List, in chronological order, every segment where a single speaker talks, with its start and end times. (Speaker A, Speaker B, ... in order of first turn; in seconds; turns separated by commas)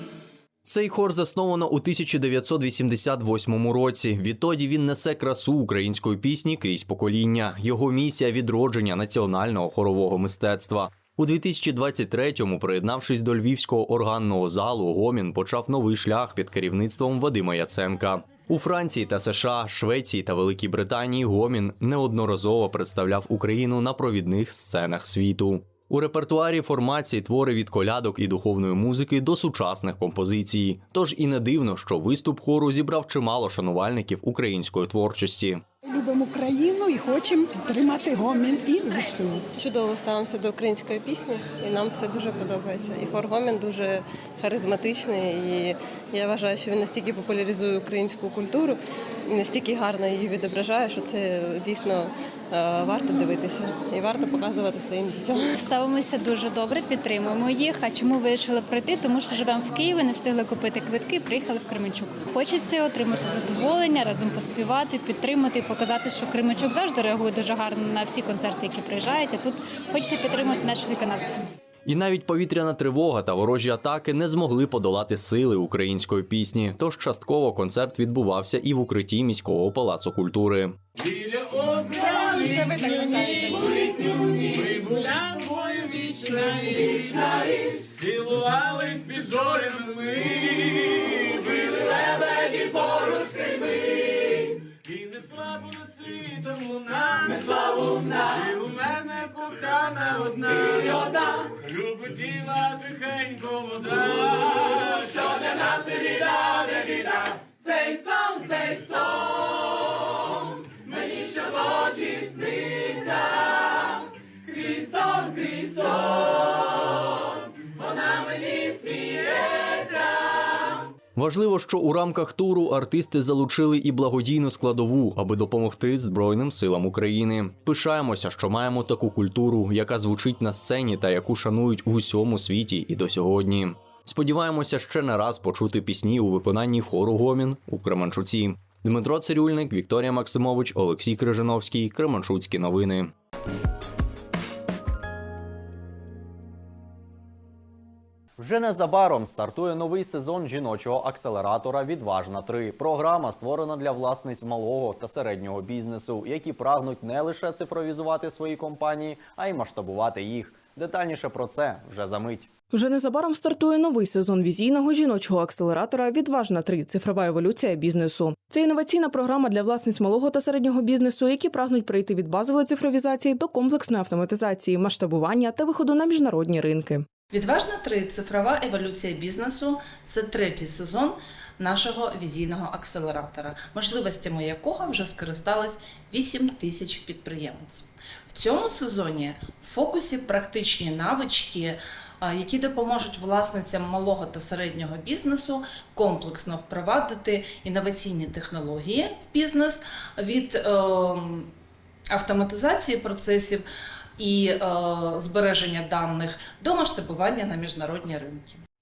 Speaker A: 0.7-35.6, Speaker B: 35.8-39.5, Speaker C: 39.6-55.5, Speaker D: 55.6-71.4, Speaker A: 71.9-80.8, Speaker E: 81.0-83.8, Speaker E: 84.5-86.8, Speaker E: 88.0-90.4, Speaker E: 91.2-93.8, Speaker E: 94.7-101.1, Speaker E: 101.6-105.2, Speaker A: 121.2-143.1, Speaker A: 148.4-162.5, Speaker F: 162.7-177.1, Speaker G: 177.3-201.5, Speaker G: 202.1-203.7, Speaker G: 204.2-208.6